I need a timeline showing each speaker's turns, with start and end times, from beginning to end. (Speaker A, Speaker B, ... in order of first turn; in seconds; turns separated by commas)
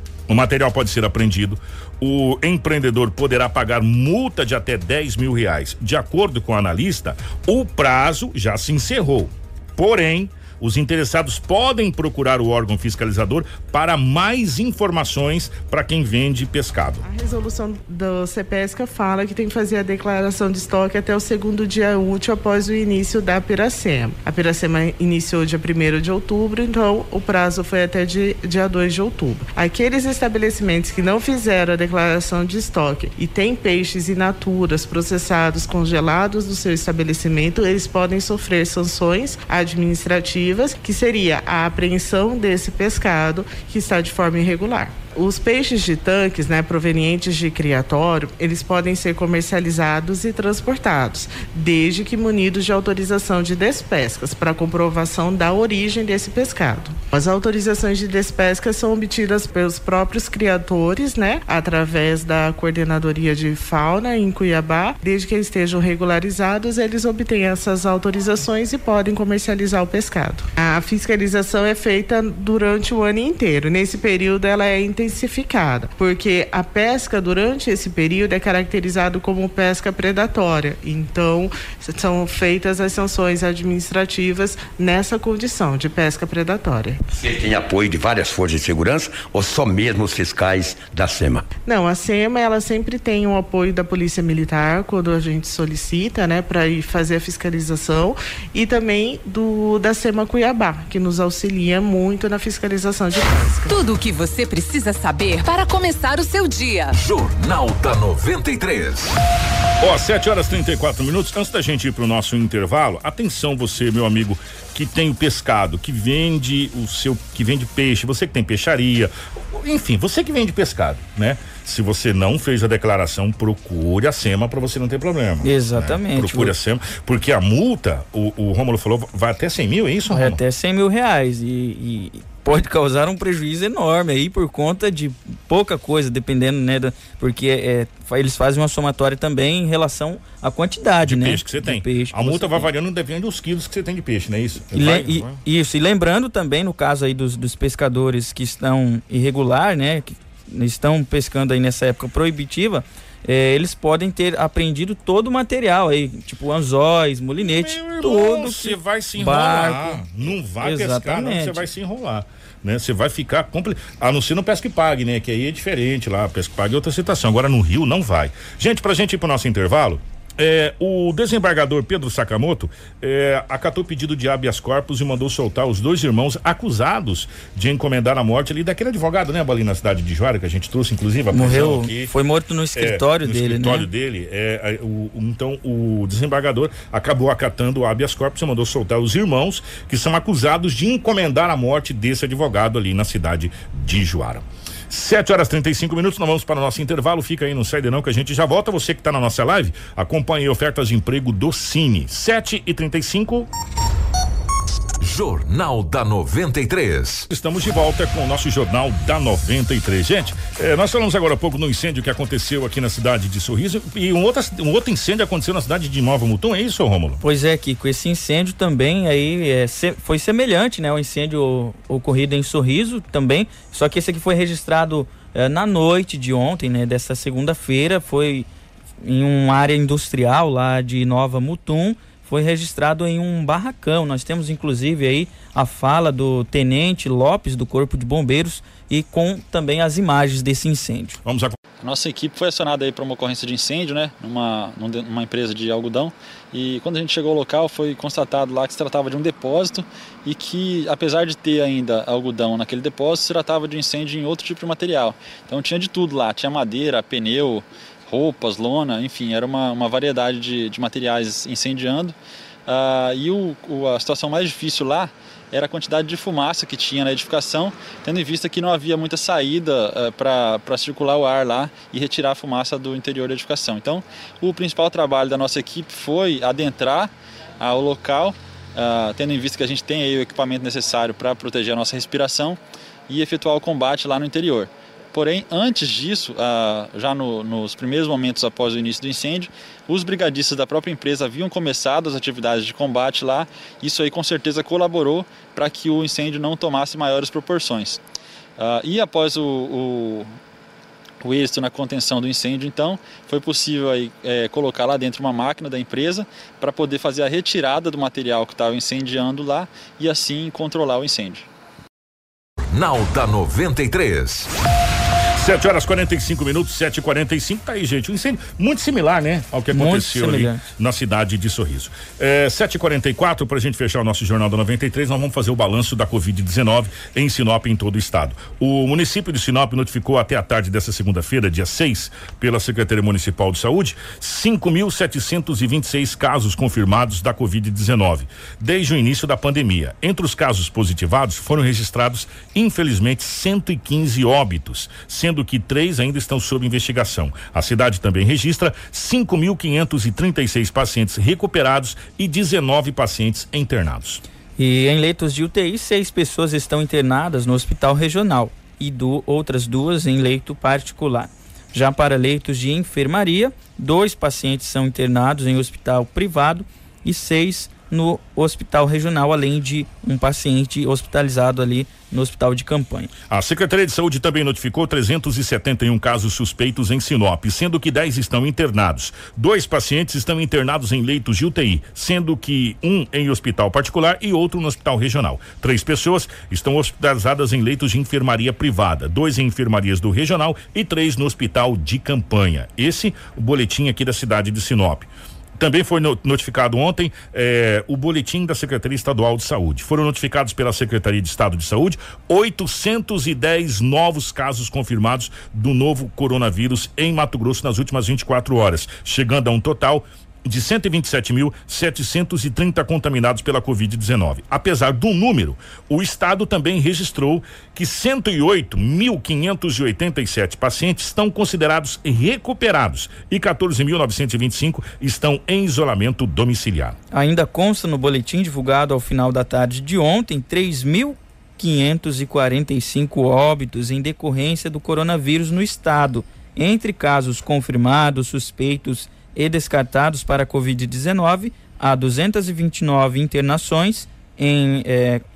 Speaker A: 0.3-17.0, Speaker B: 17.0-87.0, Speaker C: 87.1-91.5, Speaker B: 91.7-103.7, Speaker D: 103.7-106.9, Speaker E: 106.9-109.1, Speaker A: 109.8-130.4, Speaker F: 125.4-126.5, Speaker F: 130.1-142.7, Speaker A: 141.0-145.4, Speaker F: 144.7-160.1, Speaker A: 157.4-182.1, Speaker F: 160.6-161.6, Speaker F: 181.3-183.9, Speaker A: 182.8-203.5, Speaker E: 205.0-207.3, Speaker A: 207.3-217.2, Speaker F: 217.2-228.5, Speaker F: 229.0-241.2, Speaker A: 241.2-241.6, Speaker G: 241.8-262.1, Speaker G: 262.6-298.0, Speaker G: 298.6-300.4, Speaker G: 301.2-311.5, Speaker E: 312.6-314.5, Speaker A: 315.4-354.2, Speaker F: 319.7-320.6, Speaker F: 354.6-373.1, Speaker A: 373.3-427.0, Speaker F: 427.1-445.2